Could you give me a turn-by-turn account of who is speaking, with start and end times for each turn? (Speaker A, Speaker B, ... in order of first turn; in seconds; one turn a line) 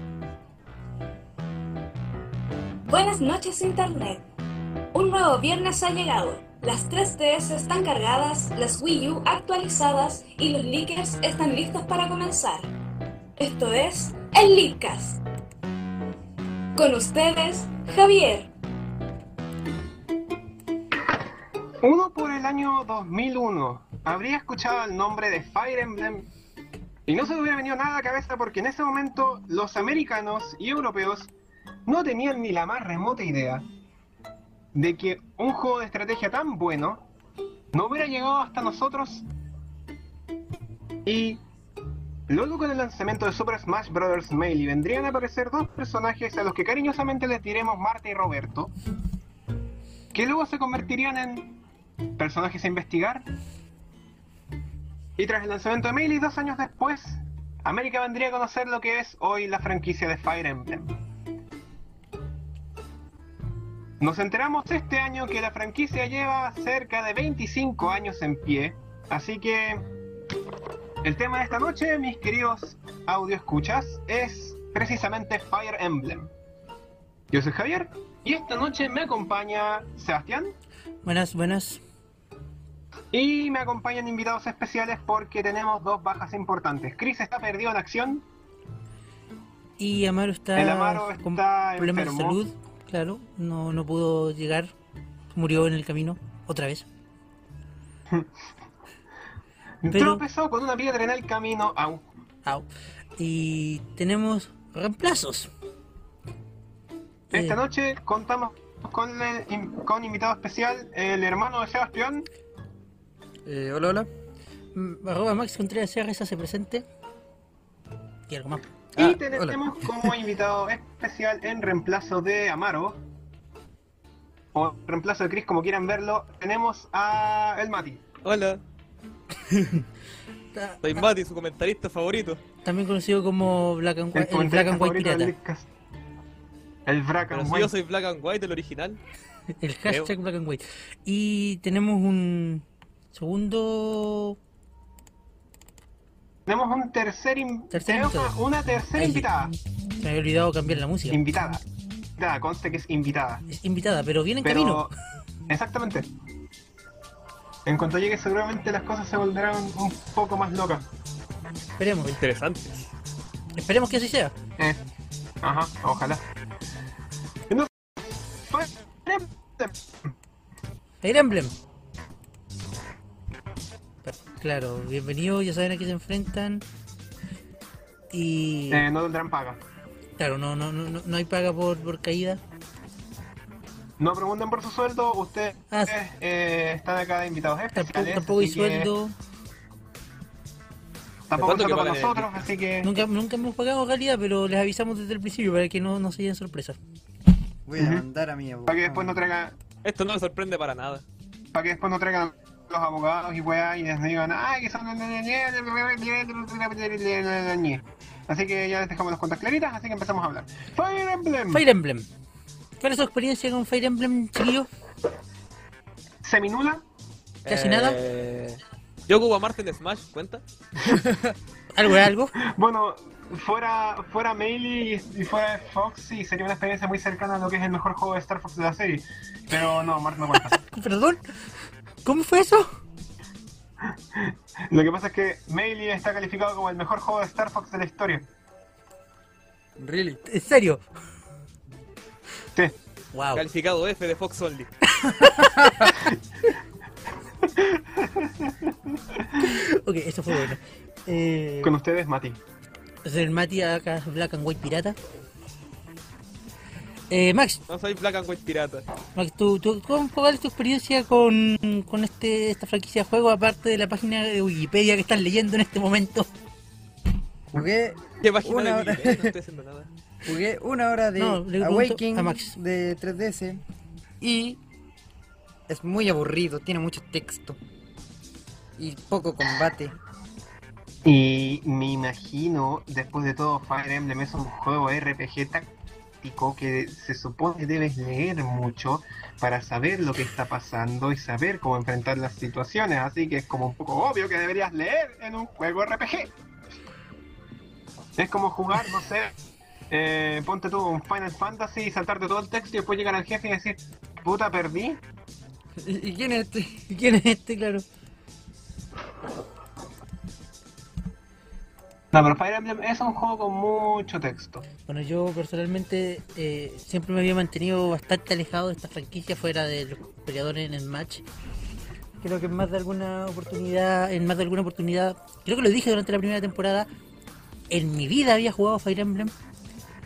Speaker A: 2.9-4.2
Speaker A: 4.9-12.7
Speaker A: 13.4-15.2
Speaker A: 16.8-18.5
Speaker B: 21.8-26.3
Speaker B: 27.1-31.3
Speaker B: 31.9-33.7
Speaker B: 34.7-37.0
Speaker B: 37.7-39.3
Speaker B: 41.0-41.4
Speaker B: 42.3-48.7
Speaker B: 50.1-51.5
Speaker B: 52.2-53.3
Speaker B: 55.2-61.0
Speaker B: 64.0-69.8
Speaker B: 71.0-76.3
Speaker B: 77.3-80.5
Speaker C: 81.0-81.8
Speaker B: 83.1-88.2
Speaker C: 89.8-94.7
Speaker B: 90.5-92.4
Speaker C: 95.3-96.8
Speaker B: 99.8-102.1
Speaker C: 99.9-100.2
Speaker C: 103.2-105.5
Speaker C: 107.3-107.6
Speaker B: 107.3-112.3
Speaker D: 113.5-114.1
Speaker C: 114.7-116.8
Speaker C: 118.3-118.7
Speaker B: 119.0-123.0
Speaker D: 119.0-120.1
Speaker B: 124.5-128.0
Speaker E: 128.2-128.6
Speaker C: 129.5-129.8
Speaker C: 130.5-131.1
Speaker E: 130.8-132.4
Speaker C: 132.6-135.3
Speaker B: 134.1-135.7
Speaker B: 136.8-137.7
Speaker E: 137.3-139.0
Speaker C: 139.6-144.4
Speaker E: 139.8-140.1
Speaker B: 146.5-149.5
Speaker C: 147.7-148.3
Speaker C: 148.9-149.3
Speaker C: 150.0-151.2
Speaker B: 151.1-151.6
Speaker B: 152.2-153.4
Speaker C: 153.5-154.9
Speaker B: 154.4-154.9
Speaker B: 155.5-156.1
Speaker B: 157.7-160.9
Speaker C: 161.8-162.2
Speaker E: 162.0-162.9
Speaker C: 163.5-164.3
Speaker B: 165.4-166.2
Speaker B: 168.4-169.8
Speaker C: 171.0-171.5
Speaker C: 174.0-176.6
Speaker C: 178.1-178.9
Speaker B: 178.7-179.6
Speaker C: 180.2-182.4
Speaker B: 184.0-188.9
Speaker C: 185.7-185.9
Speaker C: 187.8-189.2
Speaker B: 191.3-192.9
Speaker E: 191.3-192.5
Speaker C: 192.8-196.8
Speaker D: 197.7-199.2
Speaker B: 197.8-198.0
Speaker B: 198.7-199.6
Speaker E: 199.8-201.0
Speaker B: 201.5-211.7
Speaker C: 211.5-212.1
Speaker C: 212.8-214.7
Speaker B: 216.2-216.8
Speaker E: 217.5-220.4
Speaker C: 217.5-218.0
Speaker C: 220.9-221.2
Speaker C: 221.7-222.3
Speaker B: 222.4-230.6
Speaker C: 230.5-231.2
Speaker C: 232.0-232.8
Speaker B: 234.1-238.3
Speaker D: 239.8-240.2
Speaker C: 240.2-240.8
Speaker C: 243.1-243.4
Speaker E: 243.3-244.7
Speaker C: 244.9-246.0
Speaker B: 247.6-248.5
Speaker C: 249.4-251.8
Speaker B: 251.6-252.4
Speaker C: 253.0-255.0
Speaker C: 257.1-257.6
Speaker E: 257.7-258.9
Speaker C: 259.1-266.3
Speaker D: 267.5-269.4
Speaker E: 268.2-269.9
Speaker D: 270.2-273.6
Speaker C: 271.2-272.5
Speaker D: 274.2-274.6
Speaker D: 275.7-277.6
Speaker D: 278.8-279.9
Speaker B: 281.0-285.7
Speaker B: 286.2-296.3
Speaker B: 298.2-299.3
Speaker B: 299.9-305.0
Speaker D: 305.8-306.9
Speaker C: 306.9-307.9
Speaker B: 312.1-314.7
Speaker C: 314.9-321.2
Speaker C: 322.2-326.9
Speaker C: 327.7-329.3